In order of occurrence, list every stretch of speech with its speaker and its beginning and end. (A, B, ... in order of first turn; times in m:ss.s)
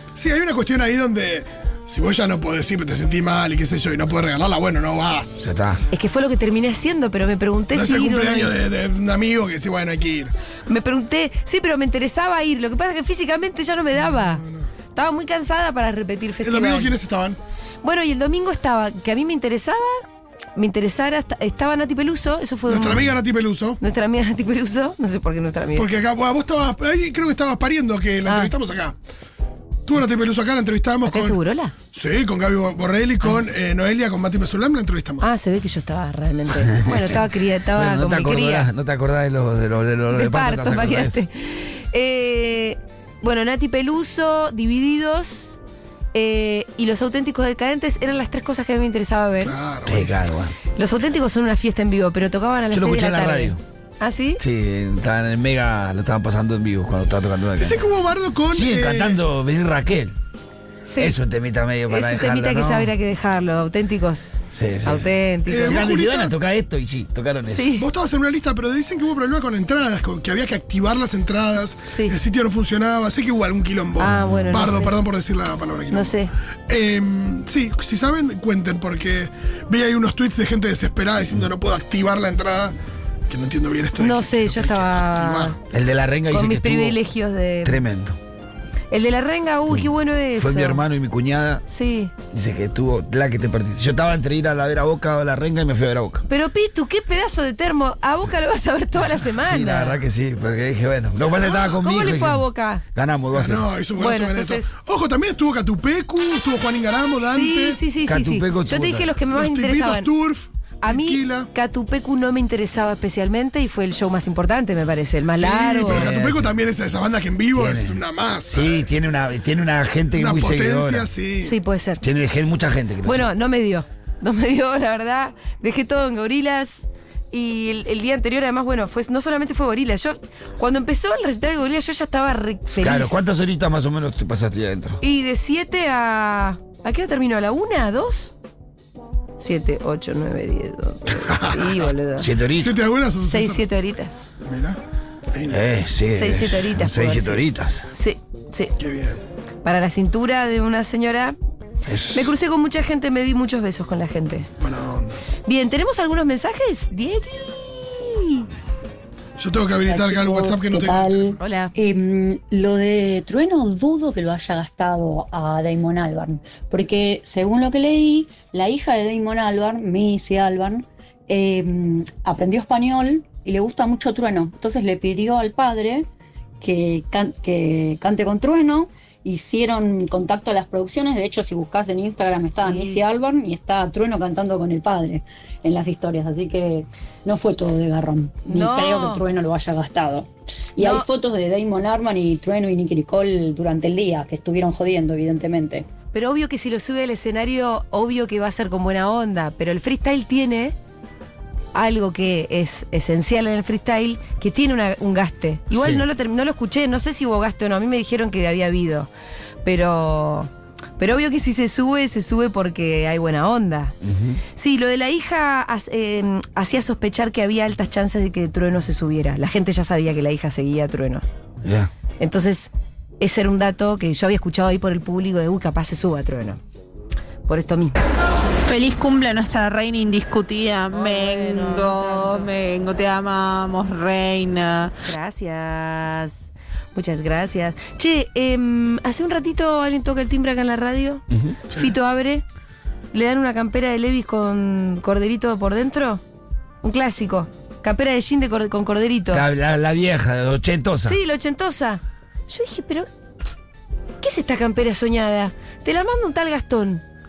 0:00.2-0:05.4 A
0:05.4-0:05.8 B
0:05.9-0:08.5 C
0:07.7-0:10.3 A
0:10.7-0:14.4 C
0:14.2-0:14.7 A
0:14.9-0:16.9 C
0:16.4-0:17.4 A
0:17.8-0:20.0 C
0:20.6-0:23.1 C
0:22.7-0:23.8 A
0:23.8-0:25.9 C
0:25.8-0:29.0 A
0:28.3-0:28.5 C
0:29.9-0:31.4 A
0:31.0-0:31.7 C
0:31.9-0:35.3 A
0:35.2-0:38.7 C
0:36.7-0:37.2 B
0:37.7-0:41.2 B
0:40.1-0:45.6 C
0:46.1-0:49.6 C
0:49.4-0:50.2 A
0:49.8-0:50.6 B
0:50.8-0:54.4 C
0:52.7-0:53.6 B
0:54.4-0:57.8 B
0:57.6-0:59.2 A
0:58.5-1:00.2 B
1:00.8-1:01.2 C
1:01.0-1:02.9 B
1:01.9-1:04.3 C
1:04.5-1:07.7 B
1:04.8-1:05.9 C
1:05.5-1:06.3 A
1:07.5-1:07.9 C
1:07.8-1:16.2 A
1:11.9-1:12.2 C
1:14.0-1:15.0 C
1:14.1-1:14.8 B
1:15.9-1:16.3 C
1:16.7-1:22.8 A
1:23.3-1:25.6 A
1:24.0-1:25.6 C
1:25.7-1:27.0 B
1:26.3-1:27.8 C
1:27.6-1:28.2 B
1:28.9-1:30.8 C
1:29.7-1:31.6 B
1:31.7-1:32.1 C
1:32.3-1:36.3 B
1:36.3-1:40.0 C
1:39.4-1:43.7 B
1:41.6-1:42.8 C
1:43.3-1:47.8 A
1:44.0-1:44.7 C
1:47.3-1:50.1 C
1:48.1-1:49.1 B
1:49.3-1:51.5 A
1:50.8-1:56.1 C
1:55.3-1:58.9 A
1:55.8-1:56.5 B
1:57.5-2:01.1 B
2:00.1-2:01.6 A
2:01.4-2:02.0 C
2:02.0-2:03.3 B
2:03.0-2:13.3 C
2:12.8-2:15.0 B
2:15.0-2:18.3 C
2:19.4-2:22.3 C
2:21.2-2:21.9 A
2:22.2-2:22.8 B
2:22.6-2:23.7 A
2:23.2-2:24.3 C
2:24.4-2:24.8 A
2:25.3-2:25.6 A
2:25.5-2:27.9 B
2:26.1-2:28.7 C
2:28.8-2:29.2 A
2:29.6-2:31.4 C
2:31.9-2:32.3 B
2:32.1-2:34.5 C
2:34.6-2:35.2 A
2:35.5-2:38.5 C
2:39.4-2:41.4 A
2:39.8-2:56.1 D
2:41.4-2:41.7 C
2:56.6-3:15.9 D
3:02.6-3:03.0 C
3:08.5-3:09.2 C
3:10.8-3:11.1 C
3:16.1-3:20.8 C
3:21.7-3:29.1 C
3:25.7-3:26.0 B
3:29.6-3:34.0 C
3:34.0-3:34.4 B
3:34.6-3:41.2 C
3:41.6-3:41.9 B
3:42.2-3:46.6 C
3:47.5-3:48.0 C
3:48.6-3:54.9 E
3:50.9-3:52.5 C
3:55.0-4:02.4 C
4:01.3-4:01.6 B
4:03.1-4:06.2 C
4:06.8-4:09.4 C
4:09.3-4:11.2 B
4:11.0-4:13.1 C
4:14.2-4:17.0 C